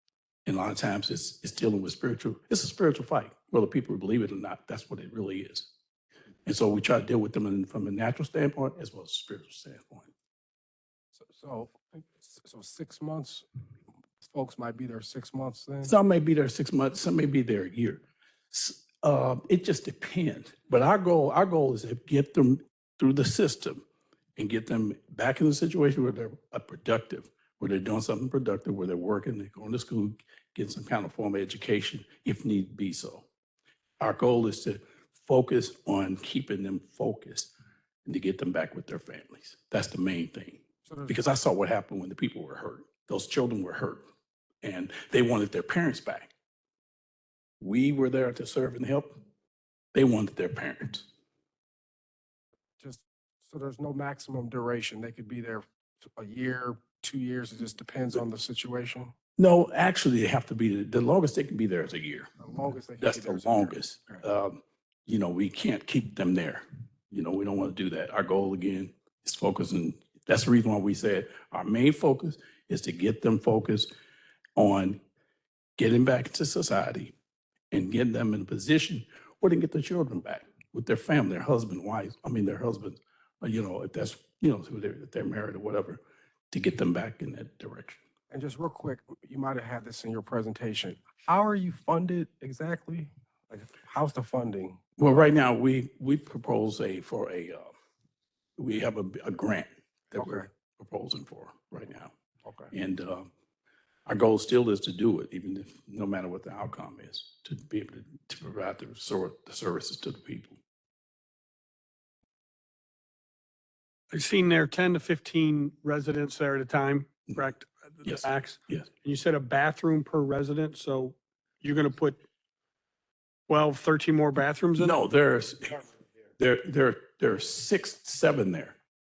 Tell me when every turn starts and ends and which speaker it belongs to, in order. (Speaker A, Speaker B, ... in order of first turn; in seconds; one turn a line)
Speaker A: 0.5-5.7
Speaker A: 6.5-10.1
Speaker B: 11.2-13.5
Speaker B: 14.2-15.9
Speaker A: 15.8-23.9
Speaker A: 24.4-33.3
Speaker A: 34.0-37.5
Speaker A: 38.0-44.0
Speaker B: 40.9-41.2
Speaker A: 44.6-46.3
Speaker A: 47.6-49.1
Speaker A: 49.9-51.1
Speaker B: 52.8-59.1
Speaker A: 59.4-62.3
Speaker B: 62.4-64.2
Speaker A: 63.0-73.9
Speaker A: 74.6-75.0
Speaker A: 75.8-77.2
Speaker A: 77.7-86.0
Speaker A: 86.5-88.0
Speaker B: 88.3-94.8
Speaker A: 95.0-97.7
Speaker A: 98.6-102.1
Speaker B: 100.2-100.5
Speaker B: 102.5-102.7
Speaker A: 102.7-103.3
Speaker A: 104.1-110.6
Speaker C: 114.1-122.2
Speaker A: 118.0-118.9
Speaker C: 123.5-125.0
Speaker A: 124.8-128.8